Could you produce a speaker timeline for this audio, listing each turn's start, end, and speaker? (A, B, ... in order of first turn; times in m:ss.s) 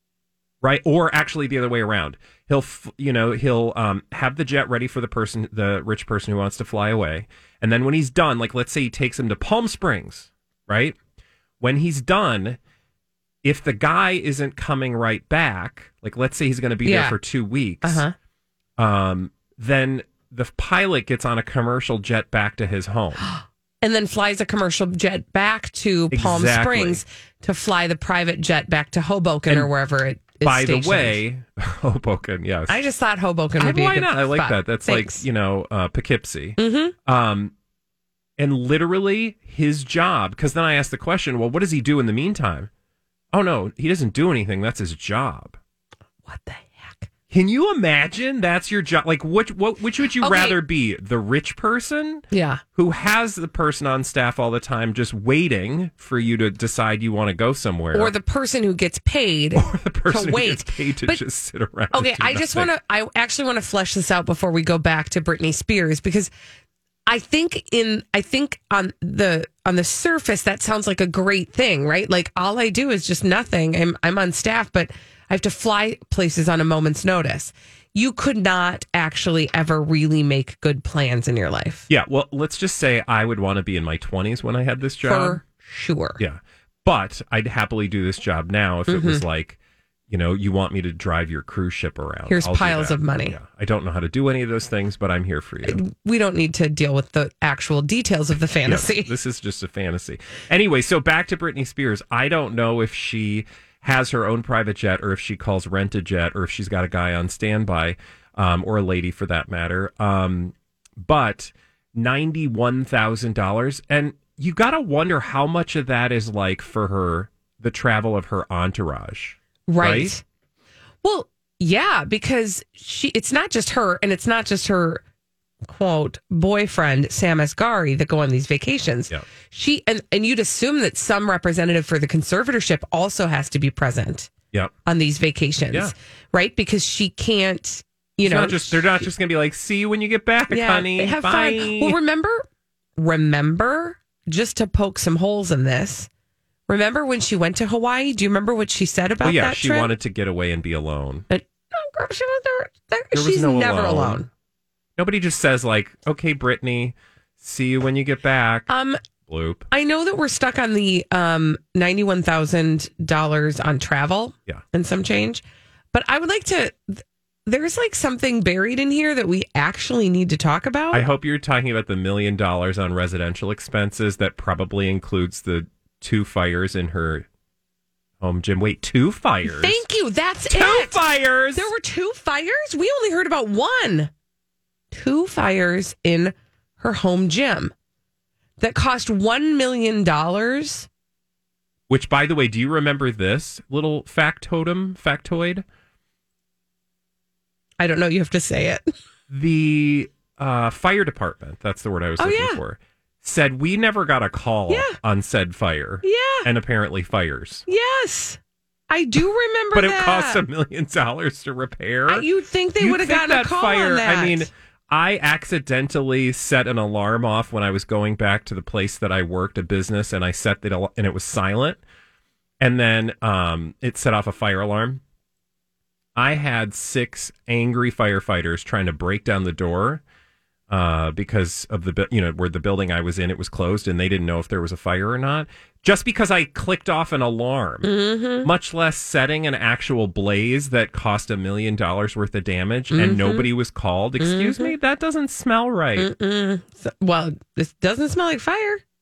0:00.6-0:11.0 A
0:11.6-0:12.6 A
0:13.4-0:18.0 A
0:16.8-0:17.2 B
0:17.8-0:18.1 B
0:18.8-0:23.2 A
0:23.2-0:31.2 B
0:26.1-0:27.0 A
0:30.4-0:32.8 A
0:32.7-0:35.2 B
0:33.6-0:37.5 A
0:36.6-0:36.9 B
0:38.4-0:42.7 A
0:43.3-0:45.6 A
0:46.2-0:47.1 B
0:47.3-0:58.1 A
0:50.2-0:50.6 B
0:52.3-0:52.6 B
0:57.9-1:01.2 B
0:59.6-1:02.7 A
1:01.9-1:06.3 B
1:07.1-1:21.9 B
1:21.9-1:25.4 A
1:25.0-1:26.2 B
1:26.2-1:29.6 A
1:28.9-1:29.2 B
1:30.1-1:35.8 A
1:32.3-1:33.4 B
1:35.6-1:39.1 B
1:38.6-2:00.1 A
1:59.7-2:00.2 B
2:01.0-2:05.0 B
2:05.7-2:14.3 B
2:14.9-2:18.9 B
2:18.2-2:22.0 A
2:20.5-2:22.5 B
2:23.0-2:26.1 B
2:26.7-2:29.9 B
2:29.2-2:31.2 A
2:31.3-2:34.3 B
2:33.1-2:34.2 A
2:35.0-2:38.7 A
2:38.7-2:39.0 B
2:39.3-2:39.7 A
2:39.7-2:51.0 B
2:50.9-2:57.2 A
2:58.2-2:59.8 A
2:59.5-3:01.0 B
3:00.5-3:01.7 A
3:01.6-3:04.1 B
3:04.9-3:07.7 B
3:08.6-3:10.9 B
3:11.9-3:15.6 A
3:17.8-3:18.9 B
3:19.3-3:27.6 A
3:22.2-3:22.6 B
3:24.7-3:25.0 B
3:26.0-3:26.5 B
3:27.7-3:28.4 B
3:28.9-3:30.4 B
3:29.7-3:32.3 A
3:32.1-3:34.5 B
3:32.8-3:41.8 A
3:42.6-3:45.0 A
3:46.2-3:50.0 A
3:50.7-4:06.1 A
3:57.8-3:58.5 B
4:02.9-4:03.5 B
4:04.2-4:04.7 B
4:06.0-4:08.8 B